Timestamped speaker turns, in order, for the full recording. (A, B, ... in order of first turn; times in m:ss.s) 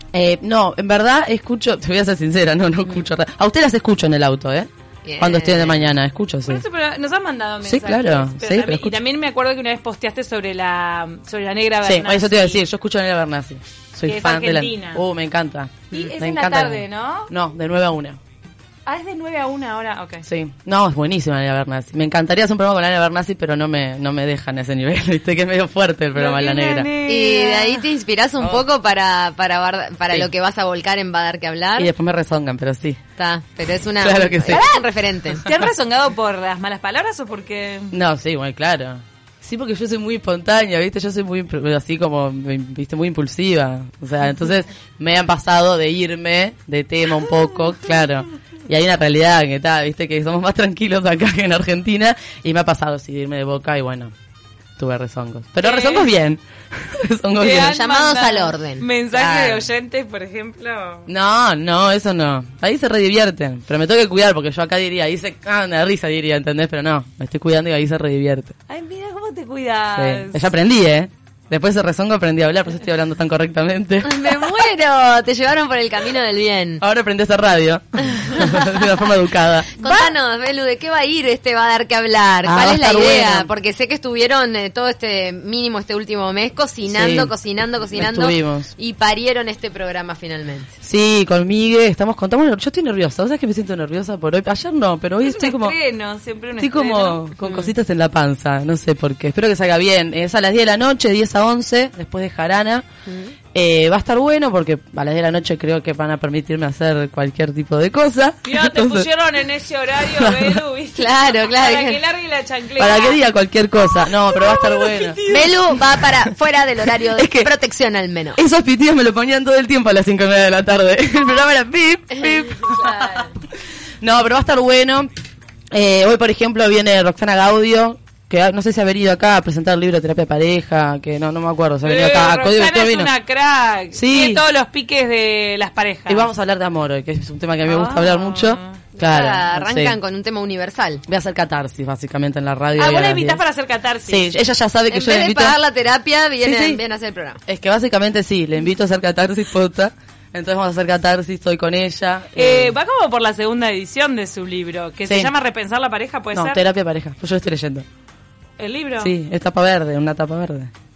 0:00.1-0:06.6 A
0:05.0-0:05.9 B
0:06.5-0:12.6 C
0:07.6-0:09.0 A
0:11.8-0:18.2 A
0:14.1-0:15.0 C
0:15.9-0:17.3 C
0:18.8-0:20.2 C
0:20.2-0:26.9 A
0:26.1-0:27.8 C
0:27.0-0:31.9 B
0:31.8-0:33.0 A
0:33.2-0:35.4 B
0:34.0-0:34.6 A
0:34.5-0:34.8 C
0:35.4-0:37.9 C
0:37.9-0:54.1 A
0:54.8-0:57.8 A
0:55.6-0:56.1 C
0:57.4-1:01.1 C
0:57.7-0:58.9 B
0:59.1-0:59.7 A
1:01.1-1:08.5 A
1:08.7-1:10.5 C
1:10.0-1:14.4 A
1:14.0-1:16.8 B
1:16.8-1:20.1 A
1:19.8-1:30.7 B
1:22.4-1:23.5 A
1:26.9-1:27.3 A
1:27.9-1:28.7 A
1:30.8-1:35.8 A
1:35.2-1:37.2 C
1:36.6-1:42.8 A
1:37.4-1:37.7 B
1:43.0-1:43.3 B
1:43.5-1:49.1 A
1:48.4-1:53.2 C
1:50.2-1:50.6 A
1:51.0-1:52.0 B
1:52.8-1:55.8 A
1:54.0-1:55.7 C
1:55.3-1:58.4 B
1:57.1-1:57.5 A
1:58.4-2:03.2 A
2:02.2-2:03.3 B
2:04.0-2:05.1 A
2:05.7-2:13.1 A
2:11.8-2:16.3 C
2:13.9-2:14.4 A
2:16.1-2:20.0 A
2:17.6-2:18.8 C
2:19.0-2:21.0 B
2:21.1-2:23.4 A
2:22.8-2:24.3 C
2:24.1-2:25.6 A
2:24.9-2:27.4 B
2:26.4-2:26.8 A
2:27.5-2:32.7 A
2:32.4-2:36.6 C
2:36.3-2:37.8 A
2:38.6-2:39.1 C
2:39.0-2:40.7 A